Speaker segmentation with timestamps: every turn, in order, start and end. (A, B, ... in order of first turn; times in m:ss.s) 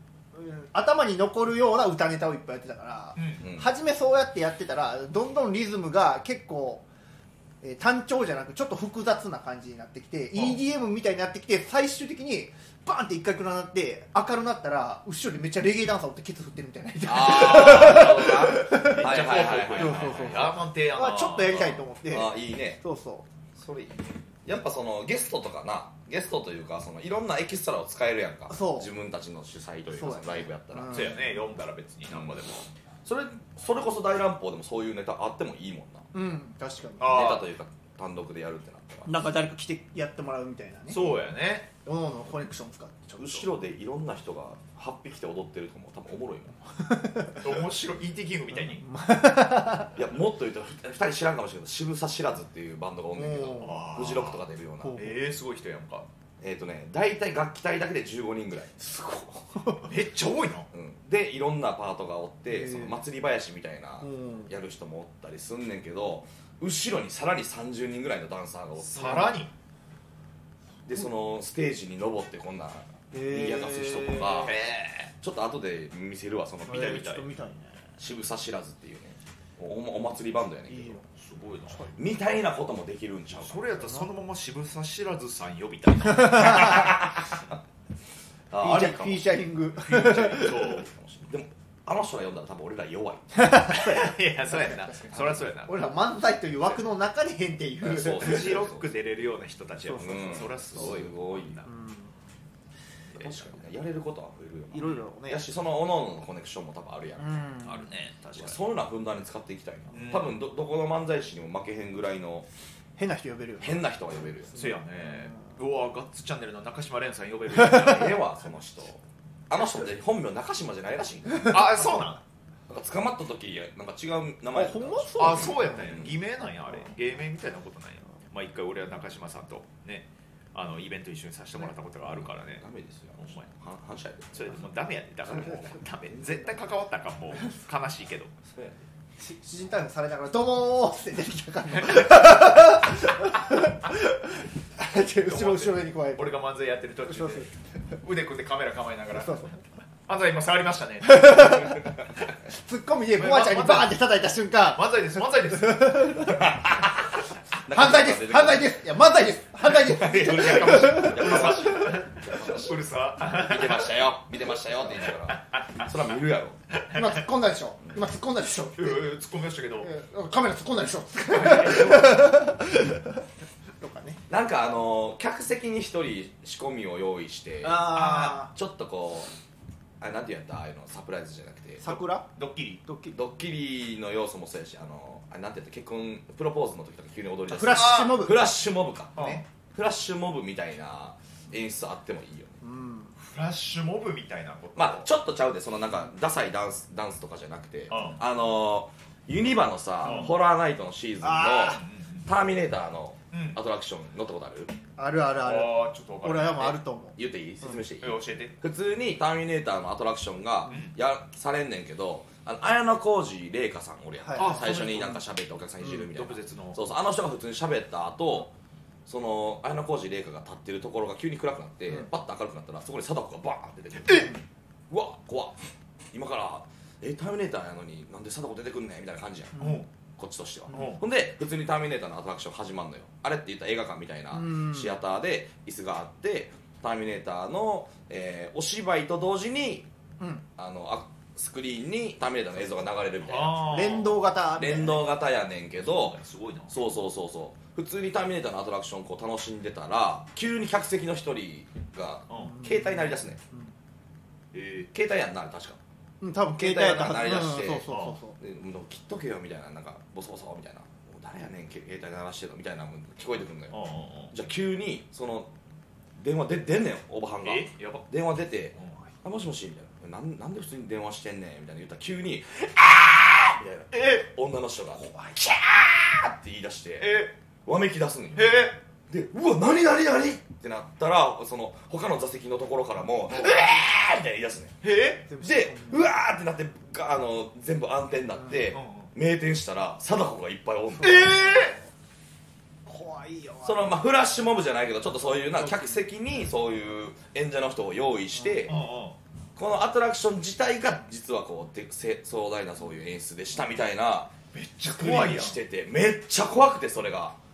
0:00.3-0:06.8 A
0:03.2-0:03.4 B
0:03.4-0:03.7 C
0:07.6-0:23.3 A
0:17.0-0:20.6 C
0:18.7-0:21.8 B
0:22.1-0:22.8 C
0:23.6-0:31.1 C
0:28.5-0:28.9 A
0:29.9-0:31.3 A
0:30.9-0:32.7 B
0:32.1-0:32.4 C
0:33.0-0:36.1 C
0:36.1-0:37.2 A
0:37.0-0:37.5 B
0:37.0-0:39.1 C
0:39.1-0:41.0 A
0:40.9-0:41.7 B
0:41.8-0:43.5 A
0:43.2-0:46.6 C
0:46.8-0:47.5 A
0:47.4-0:48.8 B
0:48.8-0:49.9 A
0:49.9-0:55.0 C
0:53.2-0:54.0 A
0:53.6-0:56.1 B
0:54.8-0:55.2 A
0:56.4-0:58.8 C
0:58.8-0:59.9 A
0:59.8-1:00.7 B
1:00.7-1:09.3 C
1:02.5-1:03.0 A
1:04.0-1:04.5 A
1:08.8-1:09.5 B
1:09.0-1:09.3 A
1:10.8-1:14.6 C
1:13.1-1:14.5 A
1:14.4-1:15.1 B
1:15.2-1:17.2 C
1:16.7-1:18.0 A
1:16.7-1:17.2 B
1:18.0-1:21.0 C
1:20.7-1:21.0 A
1:21.1-1:21.8 B
1:22.0-1:23.6 C
1:23.4-1:27.0 B
1:23.8-1:24.1 A
1:26.4-1:26.9 A
1:26.6-1:27.4 C
1:28.5-1:29.3 C
1:28.6-1:30.8 A
1:29.8-1:30.9 B
1:30.8-1:33.6 C
1:33.3-1:38.6 A
1:33.6-1:35.9 B
1:37.8-1:38.9 C
1:38.0-1:41.7 B
1:39.8-1:40.9 A
1:40.0-1:41.6 C
1:41.6-1:42.1 A
1:43.1-1:43.5 B
1:43.2-1:47.6 C
1:44.7-1:45.4 A
1:47.2-1:47.9 A
1:47.6-1:48.6 B
1:48.4-1:52.5 C
1:49.9-1:50.4 B
1:53.0-1:53.8 A
1:53.6-1:54.6 C
1:54.6-1:58.2 B
1:57.7-2:01.8 C
2:01.5-2:02.2 B
2:02.7-2:06.2 C
2:04.5-2:05.8 A
2:05.2-2:12.6 B
2:12.2-2:14.6 C
2:13.2-2:13.5 B
2:14.3-2:18.3 B
2:15.3-2:16.3 C
2:18.4-2:18.8 C
2:19.2-2:26.3 A
2:21.8-2:22.1 B
2:25.2-2:27.5 B
2:27.1-2:27.5 A
2:28.0-2:29.4 B
2:29.2-2:29.6 A
2:30.1-2:31.8 B
2:31.0-2:31.9 A
2:32.5-2:34.9 A
2:33.2-2:34.0 B
2:34.7-2:36.3 B
2:35.5-2:36.6 A
2:36.4-2:38.8 C
2:37.7-2:42.0 A
2:39.7-2:46.6 C
2:40.0-2:44.0 B
2:45.1-2:45.9 B
2:46.7-2:47.2 B
2:46.9-2:49.0 A
2:48.8-2:49.9 B
2:49.8-2:53.2 A
2:51.3-2:52.1 B
2:51.7-2:52.2 C
2:53.8-2:54.2 A
2:54.3-2:59.3 C
2:57.6-2:58.5 A
3:00.0-3:01.8 C
3:01.8-3:02.3 A
3:01.9-3:02.8 B
3:02.8-3:03.2 A
3:03.1-3:09.2 C
3:07.5-3:08.4 A
3:07.7-3:08.2 B
3:09.2-3:09.4 B
3:09.2-3:09.4 A
3:09.7-3:12.6 C
3:12.6-3:13.1 A
3:13.2-3:15.1 B
3:14.8-3:24.8 C
3:17.9-3:18.2 B
3:20.0-3:20.3 B
3:20.0-3:20.3 A
3:21.2-3:21.8 A
3:21.7-3:22.3 B
3:23.3-3:23.6 B
3:25.0-3:27.2 A
3:25.4-3:26.8 B
3:27.2-3:38.5 C
3:28.0-3:28.6 B
3:30.7-3:31.0 B
3:34.2-3:34.7 A
3:34.4-3:35.2 B
3:35.9-3:36.8 B
3:39.1-3:44.3 C
3:44.9-3:45.6 C
3:46.1-3:59.9 C
3:49.6-3:49.8 A
3:49.6-3:49.9 B
3:50.7-3:51.0 A
3:50.7-3:51.0 B
3:54.3-3:55.0 A
4:00.6-4:03.7 C
4:03.2-4:04.2 B
4:03.7-4:05.0 A
4:04.5-4:06.2 C
4:05.8-4:06.7 B
4:06.7-4:13.4 C
4:12.3-4:12.6 B
4:12.4-4:13.7 A
4:14.5-4:14.9 B
4:14.9-4:15.8 C
4:16.2-4:18.4 A
4:16.6-4:23.8 C
4:17.9-4:18.2 B
4:23.7-4:24.3 B
4:24.3-4:25.5 C
4:26.2-4:44.8 C
4:27.4-4:28.1 B
4:33.9-4:34.3 B
4:37.0-4:37.4 B
4:38.4-4:38.8 B
4:43.3-4:43.7 B
4:44.8-4:45.2 B
4:45.3-4:46.0 A
4:45.4-4:51.5 C
4:48.7-4:49.1 B
4:51.0-4:51.8 A
4:51.0-4:51.8 B
4:52.9-4:54.0 A
4:53.6-4:58.8 C
4:55.5-4:56.0 A
4:58.7-4:59.2 B
4:59.6-5:04.3 C
5:04.5-5:05.6 B
5:04.9-5:07.4 C